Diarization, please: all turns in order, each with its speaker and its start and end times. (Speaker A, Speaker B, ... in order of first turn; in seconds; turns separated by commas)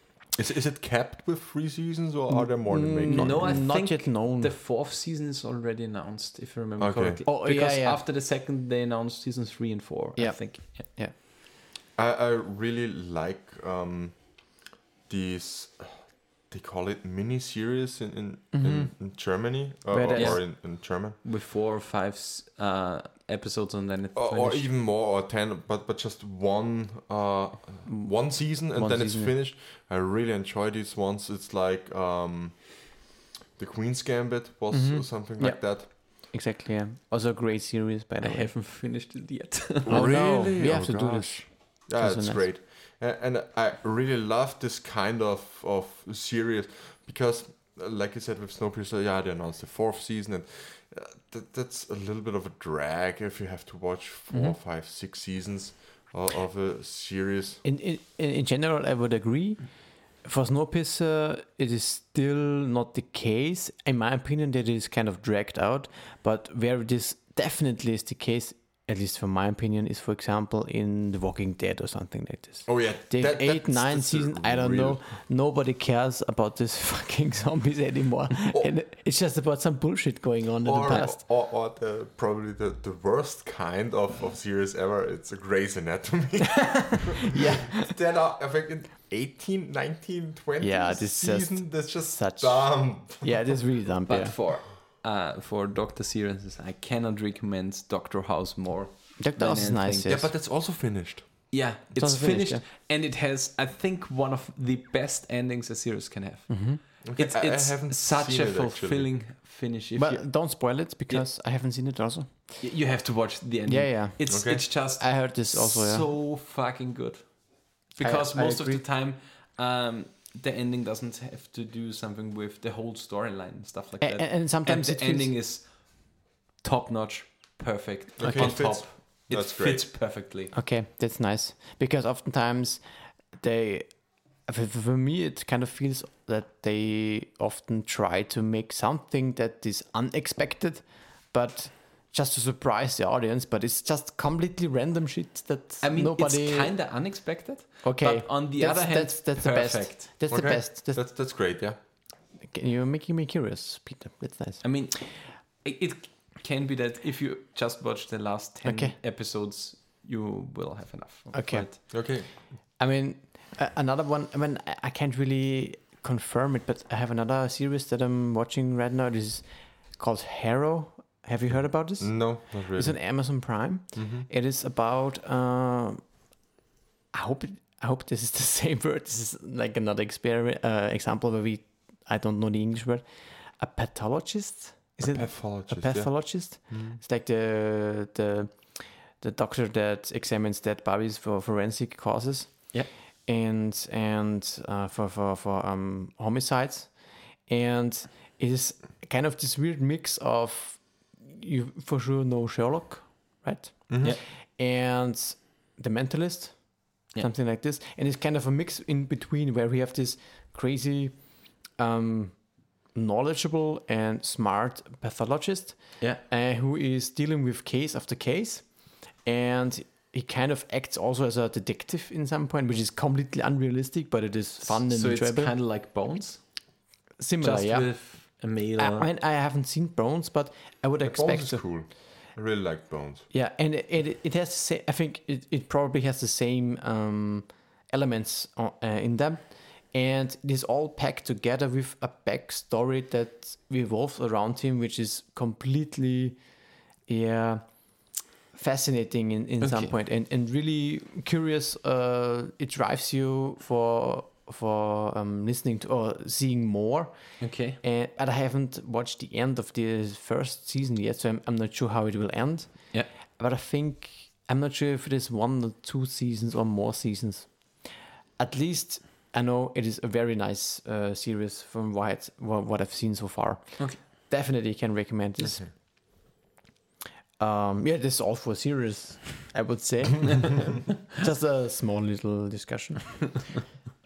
Speaker A: 0.3-3.7, Speaker B: 2.3-4.5, Speaker C: 3.0-10.8, Speaker A: 6.8-7.2, Speaker B: 7.2-8.0, Speaker B: 10.2-11.1, Speaker A: 11.9-21.2, Speaker B: 18.5-18.9, Speaker B: 19.9-20.4, Speaker C: 20.1-24.7, Speaker A: 24.1-33.0, Speaker B: 27.9-29.3, Speaker A: 33.5-35.9, Speaker B: 34.7-38.5, Speaker C: 38.2-40.2, Speaker A: 39.9-57.6, Speaker B: 39.9-42.5, Speaker B: 57.6-59.7, Speaker B: 60.2-81.2, Speaker A: 72.7-75.0, Speaker A: 78.5-78.7, Speaker A: 80.6-93.5, Speaker B: 86.7-87.9, Speaker B: 90.6-94.4, Speaker C: 94.1-100.3, Speaker B: 99.2-100.3, Speaker A: 100.1-101.5, Speaker C: 101.5-110.3, Speaker B: 102.0-102.6, Speaker B: 106.5-106.8, Speaker A: 107.0-109.1, Speaker B: 110.0-112.6, Speaker C: 112.6-130.5, Speaker B: 113.7-116.1, Speaker A: 114.3-114.7, Speaker B: 118.0-118.8, Speaker B: 124.0-125.3, Speaker A: 128.2-130.0, Speaker B: 128.2-128.7, Speaker B: 130.5-132.8, Speaker B: 133.3-146.7, Speaker C: 145.8-150.1, Speaker B: 147.8-151.0, Speaker A: 150.3-151.8, Speaker B: 152.4-154.8, Speaker C: 154.6-161.8, Speaker B: 158.6-158.9, Speaker B: 161.3-176.1, Speaker A: 161.9-162.4, Speaker A: 171.5-173.2, Speaker A: 173.9-174.3, Speaker B: 177.1-225.5, Speaker A: 185.0-186.3, Speaker A: 203.9-204.2, Speaker C: 224.6-226.5, Speaker B: 227.2-231.8, Speaker C: 227.4-229.1, Speaker A: 231.0-233.3, Speaker B: 233.3-246.4, Speaker B: 247.1-275.8, Speaker C: 249.6-249.9, Speaker C: 257.4-257.8, Speaker B: 277.4-283.6